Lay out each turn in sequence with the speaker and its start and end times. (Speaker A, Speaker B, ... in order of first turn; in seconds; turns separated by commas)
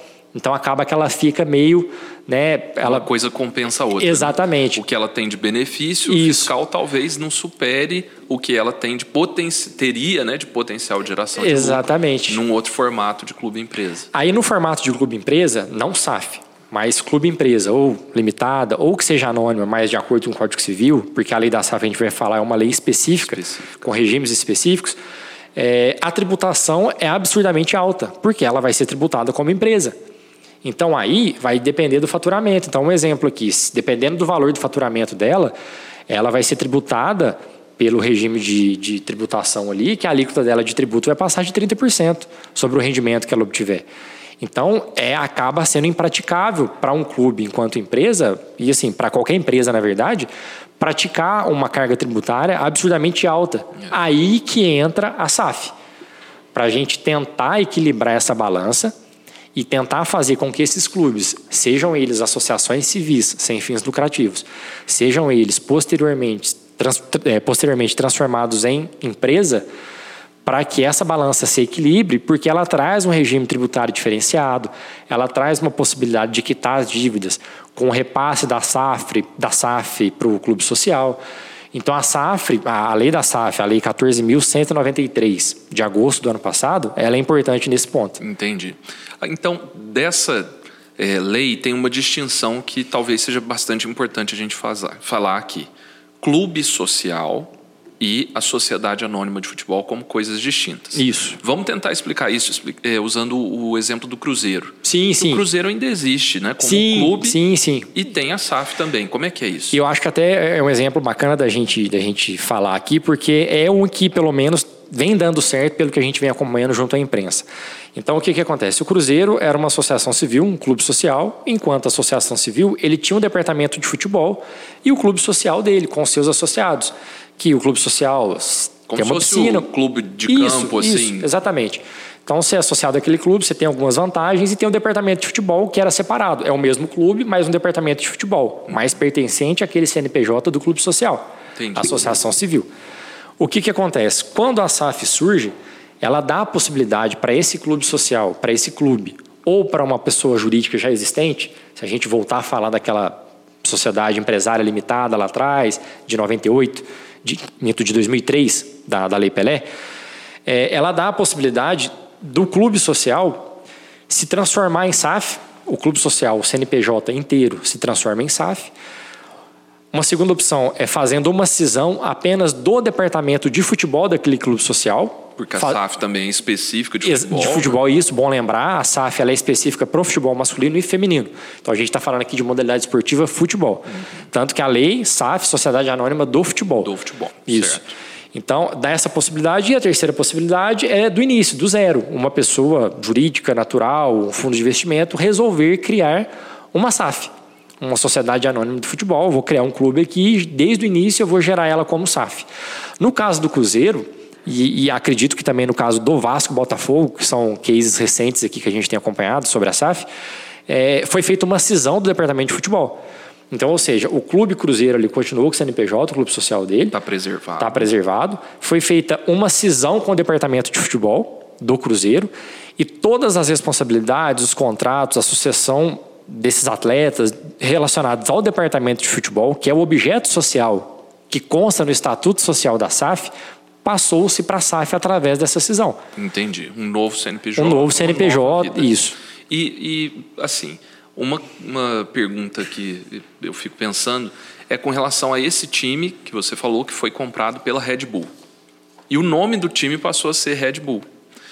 Speaker A: 0.3-3.1, Speaker B: 2.8-14.1, Speaker A: 4.0-4.8, Speaker A: 6.1-6.5, Speaker A: 11.4-12.4, Speaker A: 14.1-25.0, Speaker B: 23.2-23.9, Speaker A: 25.6-29.9, Speaker A: 30.6-35.5, Speaker A: 36.1-43.9, Speaker A: 44.4-55.7, Speaker A: 56.5-58.9, Speaker A: 59.5-69.7, Speaker A: 70.5-81.2, Speaker A: 81.7-88.2, Speaker B: 88.2-95.7, Speaker B: 96.2-107.4, Speaker A: 101.0-101.4, Speaker A: 104.8-105.5, Speaker A: 106.6-108.0, Speaker B: 108.0-109.8, Speaker A: 109.7-129.7, Speaker B: 128.9-131.3, Speaker A: 130.3-142.7, Speaker B: 141.6-142.2, Speaker A: 143.4-159.7, Speaker A: 160.5-163.6, Speaker A: 164.1-168.7, Speaker A: 169.9-175.8, Speaker B: 175.4-177.8, Speaker A: 177.0-186.9, Speaker B: 186.8-187.9, Speaker A: 187.5-187.8, Speaker A: 188.3-202.5, Speaker A: 203.0-210.1, Speaker A: 210.7-216.9, Speaker B: 216.9-217.9, Speaker A: 217.6-233.3, Speaker A: 233.8-236.0, Speaker B: 236.2-248.3, Speaker A: 237.6-239.2, Speaker B: 249.1-251.1